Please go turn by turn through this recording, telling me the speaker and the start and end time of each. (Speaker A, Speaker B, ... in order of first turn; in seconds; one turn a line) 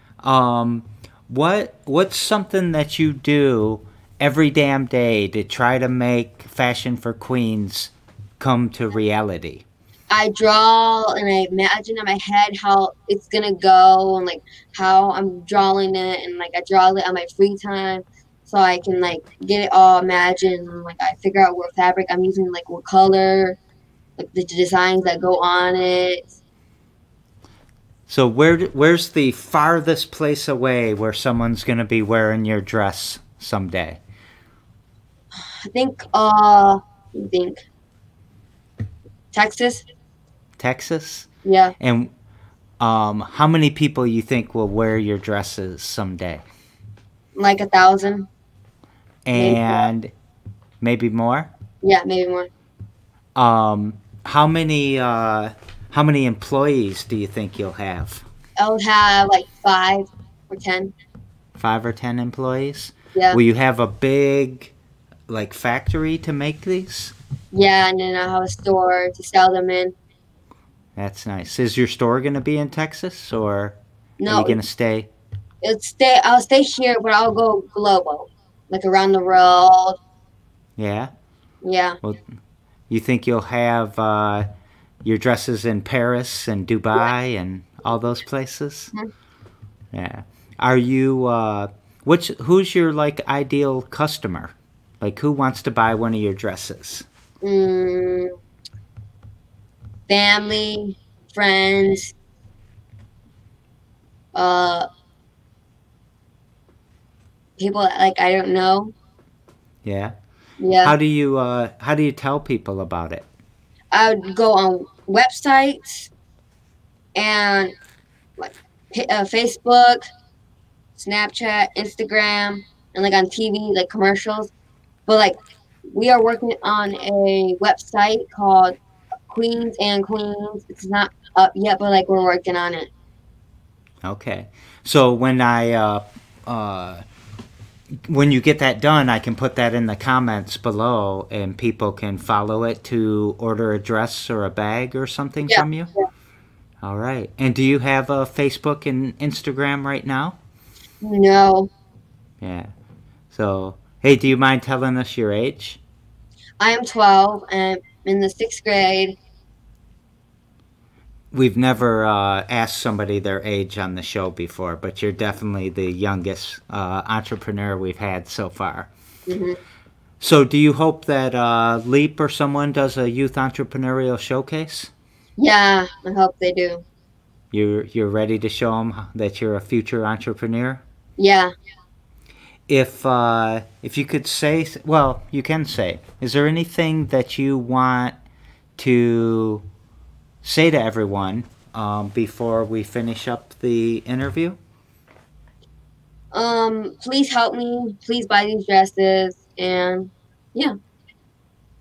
Speaker A: 0.2-9.6
Speaker B: 10.1-23.6
Speaker B: 24.2-26.3
Speaker A: 28.1-34.0
Speaker B: 35.3-37.6
Speaker B: 39.3-39.8
Speaker A: 40.6-41.3
Speaker B: 41.4-41.7
Speaker A: 41.8-42.1
Speaker A: 42.8-46.4
Speaker B: 47.4-48.3
Speaker A: 49.2-50.1
Speaker B: 49.3-49.9
Speaker A: 50.8-51.5
Speaker B: 51.8-52.5
Speaker A: 53.3-58.2
Speaker B: 58.6-60.9
Speaker A: 61.5-64.7
Speaker A: 65.3-67.1
Speaker B: 67.5-69.9
Speaker A: 71.0-73.8
Speaker B: 74.2-74.6
Speaker A: 74.3-75.1
Speaker B: 75.6-80.0
Speaker A: 80.8-81.1
Speaker B: 81.6-82.0
Speaker A: 82.9-84.5
Speaker A: 85.0-88.9
Speaker A: 89.9-97.0
Speaker B: 97.4-98.3
Speaker B: 100.1-102.1
Speaker B: 104.3-104.9
Speaker B: 107.6-108.9
Speaker A: 109.8-110.1
Speaker B: 110.6-110.9
Speaker A: 110.8-113.2
Speaker B: 113.9-116.1
Speaker B: 117.1-117.7
Speaker B: 118.4-120.0
Speaker B: 121.0-124.5
Speaker B: 125.1-125.3
Speaker B: 125.9-128.8
Speaker B: 129.3-132.9
Speaker A: 134.0-137.0
Speaker A: 138.1-145.9
Speaker A: 146.8-150.4
Speaker B: 151.0-151.7
Speaker A: 152.4-152.7
Speaker A: 153.3-155.8
Speaker B: 156.6-159.2
Speaker A: 161.3-168.9
Speaker B: 169.3-169.6
Speaker A: 170.2-174.9
Speaker B: 175.4-176.8
Speaker A: 177.5-180.8
Speaker B: 181.2-181.5
Speaker A: 182.7-188.1
Speaker A: 188.8-189.6
Speaker A: 190.4-194.6
Speaker B: 196.3-200.7